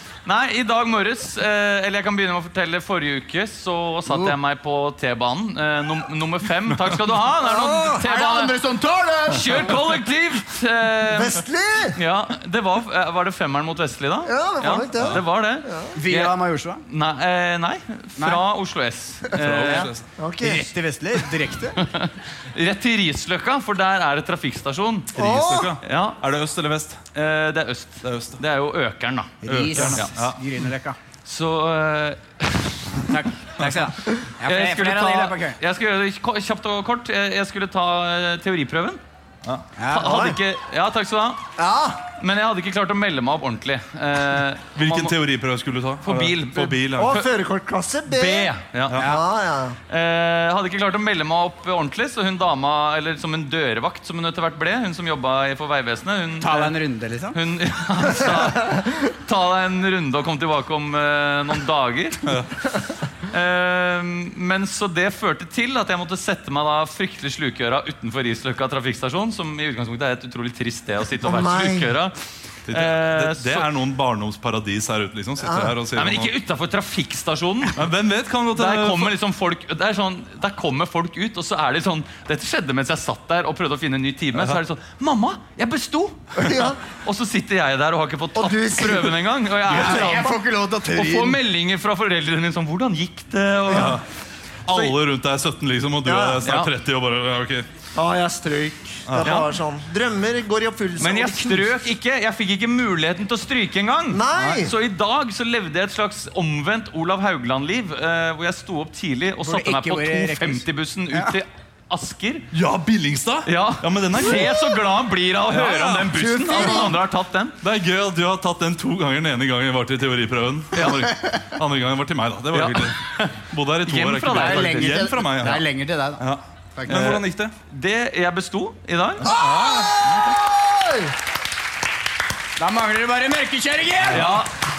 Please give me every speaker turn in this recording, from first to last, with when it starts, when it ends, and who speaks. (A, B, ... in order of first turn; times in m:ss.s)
0:00.2-0:08.6 A
0:04.1-0:04.4 B
0:06.7-0:07.2 C
0:07.4-0:08.0 B
0:08.0-0:09.7 D
0:09.3-0:19.9 A
0:11.0-0:12.0 B
0:14.2-0:16.0 B
0:15.0-0:15.2 C
0:15.9-0:16.8 D
0:18.2-0:18.4 D
0:19.3-0:20.1 C
0:19.7-0:20.7 B
0:20.4-0:21.8 D
0:21.8-0:25.1 A
0:25.1-0:27.0 C
0:25.2-0:25.8 B
0:25.8-0:26.2 A
0:27.2-0:30.1 A
0:28.0-0:28.4 C
0:29.4-0:31.0 D
0:29.5-0:30.4 C
0:31.2-0:33.2 A
0:32.9-0:35.6 D
0:34.4-0:39.0 A
0:39.8-0:40.3 D
0:39.9-0:41.4 A
0:40.0-0:40.4 B
0:41.6-0:42.0 B
0:42.2-0:45.2 A
0:44.8-0:47.2 C
0:46.0-0:47.3 A
0:47.0-0:49.8 B
0:48.1-0:49.0 A
0:49.0-0:49.2 D
0:49.9-0:56.8 A
0:56.4-0:57.4 D
0:57.3-1:02.2 A
1:02.2-1:02.5 C
1:03.2-1:12.2 A
1:11.2-1:11.9 B
1:12.7-1:13.7 A
1:12.7-1:16.3 C
1:15.4-1:15.7 B
1:16.0-1:17.8 A
1:17.7-1:19.2 C
1:18.5-1:30.4 A
1:24.3-1:24.6 C
1:26.4-1:26.8 B
1:28.4-1:29.2 B
1:29.6-1:31.4 D
1:30.9-1:34.0 A
1:33.7-1:34.0 C
1:33.7-1:34.0 B
1:34.7-1:37.7 C
1:36.0-1:36.4 B
1:36.4-1:36.7 A
1:38.0-1:41.8 B
1:39.1-1:39.4 C
1:39.2-1:39.5 A
1:41.0-1:52.4 A
1:44.1-1:44.7 B
1:49.4-1:51.4 D
1:52.5-1:54.7 C
1:53.4-1:57.6 A
1:55.5-1:57.0 C
1:56.1-1:57.0 B
1:57.6-2:07.5 C
2:02.5-2:05.0 A
2:04.3-2:06.2 D
2:06.8-2:07.2 D
2:06.9-2:09.4 A
2:09.2-2:10.0 C
2:09.2-2:11.1 B
2:10.0-2:10.4 A
2:12.6-2:14.2 D
2:14.1-2:14.5 C
2:14.1-2:14.5 A